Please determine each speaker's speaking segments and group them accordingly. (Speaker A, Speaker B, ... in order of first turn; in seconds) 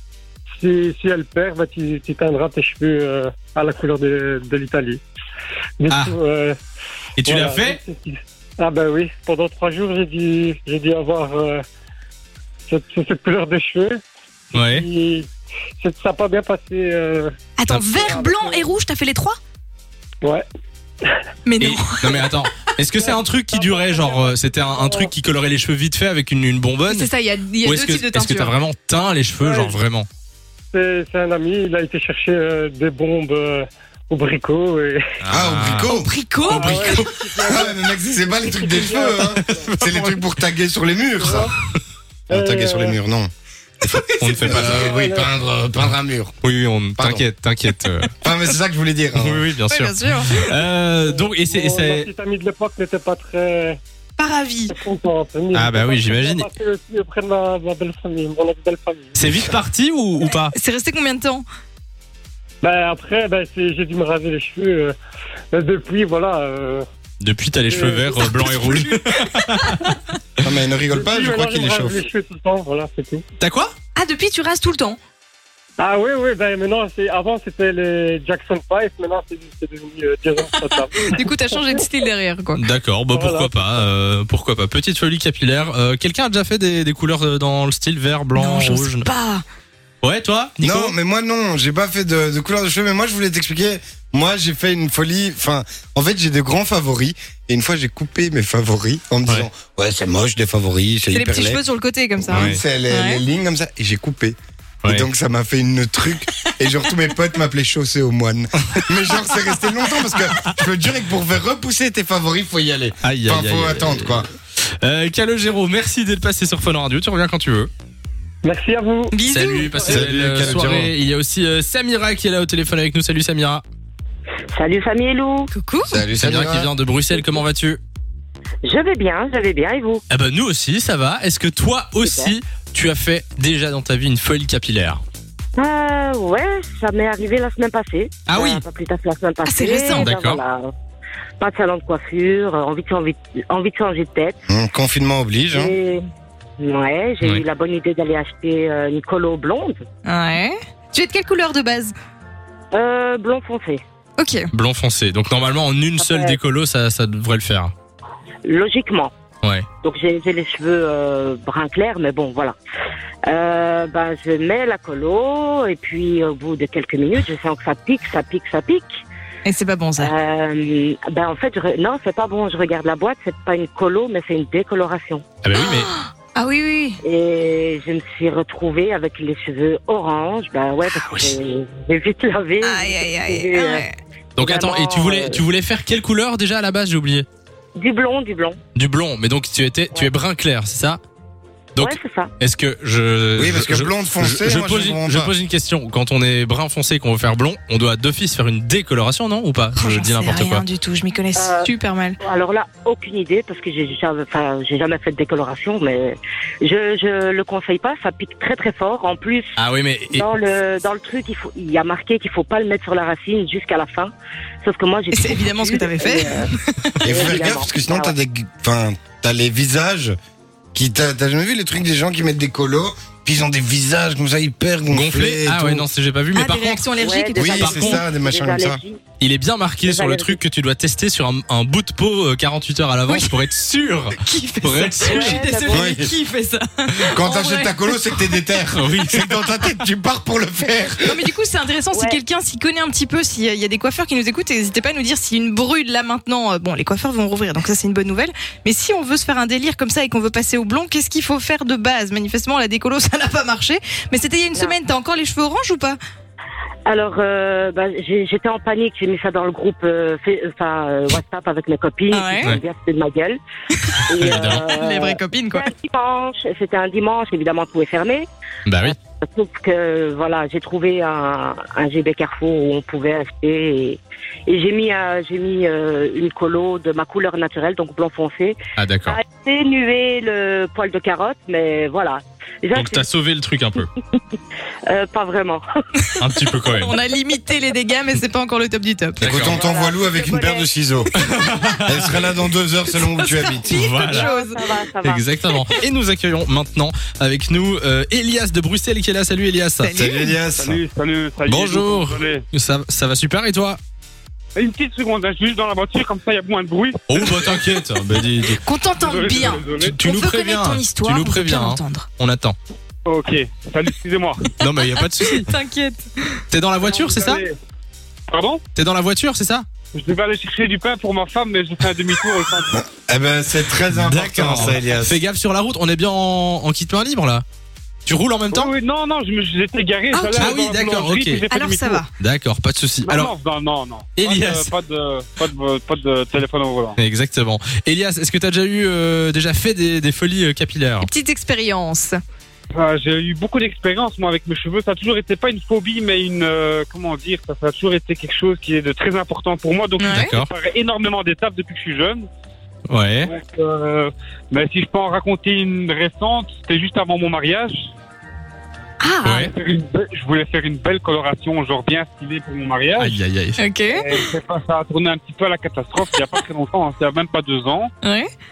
Speaker A: 0.6-5.0, 5.8-6.5, 7.2-11.6, 12.7-14.0, 14.5-15.3, 15.8-17.3, 17.9-18.6, 23.0-25.1, 29.4-29.8, 30.7-35.0, 36.5-39.7, 41.2-41.5, 42.3-43.0, 44.3-45.3, 51.0-53.8, 54.7-59.3, 62.6-64.9, 65.5-66.8, 67.7-68.2, 70.9-73.2, 75.8-81.8, 83.1-83.7, 118.4-119.2
Speaker B: 5.9-6.1, 7.2-7.8, 14.5-14.8, 21.6-27.1, 27.6-30.1, 35.2-35.9, 36.5-37.0, 39.3-40.2, 44.2-44.9, 46.4-48.1, 49.1-52.1, 55.5-56.5, 59.1-60.5, 67.2-69.8, 73.4-73.7, 82.5-89.1, 90.0-90.9, 102.3-102.6, 113.0-114.2, 114.8-117.7, 119.3-123.6, 126.2-127.8, 130.1-135.0, 138.3-138.6, 139.9-140.4, 154.5-157.7, 175.4-175.9, 184.3-187.2, 188.7-191.0, 191.8-200.6, 209.6-210.2, 224.9-226.8, 227.5-228.0, 229.2-235.4, 238.7-239.2, 264.2-264.6, 268.6-268.9, 278.8-279.2, 282.7-283.9, 286.2-286.9, 289.2-289.6, 291.2-292.1, 293.7-294.3, 295.0-299.9, 301.5-303.8, 307.1-308.6, 309.8-312.6, 314.6-315.5, 316.5-317.4, 318.7-319.6, 323.9-327.4, 328.1-328.7, 330.4-331.4, 332.2-333.3, 334.2-334.7, 337.0-341.1, 350.1-350.5, 352.9-353.3, 359.2-359.5, 363.0-363.6
Speaker C: 17.6-19.4, 21.4-22.3, 26.9-28.5, 35.9-37.1, 49.7-50.5, 54.2-54.8, 60.5-61.4, 68.4-69.9, 74.0-75.0, 81.1-82.6, 88.3-89.4, 101.1-103.2, 119.1-119.8, 125.5-126.0, 139.4-140.1, 150.0-151.9, 154.2-154.5, 169.4-170.1, 175.5-177.0, 180.8-181.3, 182.6-183.9, 199.8-202.2, 215.1-216.9, 226.3-228.0, 233.1-233.3, 234.2-237.9, 241.0-256.0, 262.1-262.6, 264.3-265.7, 286.7-289.2, 293.0-294.6, 299.8-300.4, 308.6-312.1, 314.9-316.4, 330.1-330.6, 331.5-332.1, 341.0-342.2, 350.0-350.3, 359.0-359.4, 363.6-364.0, 368.0-368.3
Speaker D: 35.3-36.1, 37.4-41.5, 42.3-43.3, 44.4-46.3, 47.0-47.2, 48.2-49.5, 70.4-72.0, 90.6-101.6, 102.2-114.3, 119.9-120.9, 125.9-126.7, 144.5-145.7, 193.4-195.3, 217.0-220.1, 220.7-225.9, 227.3-228.8, 235.7-236.2, 237.1-241.2, 289.2-291.1, 291.9-293.8, 299.9-300.8, 322.7-325.2
Speaker E: 124.5-125.5, 128.6-130.0, 132.0-132.3, 135.6-140.7, 141.4-144.4, 145.5-146.0, 146.6-149.8, 152.7-153.8, 156.0-156.4, 158.4-159.1, 159.8-162.5, 163.3-169.0, 170.0-175.2, 177.0-183.8, 184.4-185.4, 187.8-188.6, 191.8-192.3, 201.3-201.7, 202.2-209.5, 210.1-214.1, 214.6-216.4, 217.1-218.2, 227.0-229.0, 229.8-230.4, 235.0-235.9, 241.9-242.2, 256.9-263.4, 264.1-268.2, 268.8-283.1, 284.9-285.6, 289.4-290.7, 293.9-295.2
Speaker F: 300.6-302.4, 304.6-307.6, 309.0-310.0, 313.1-314.5, 316.8-317.5, 318.3-318.6, 319.9-322.7, 328.5-332.0, 333.0-337.0, 342.7-352.3, 353.2-357.9, 359.5-363.2, 363.9-367.9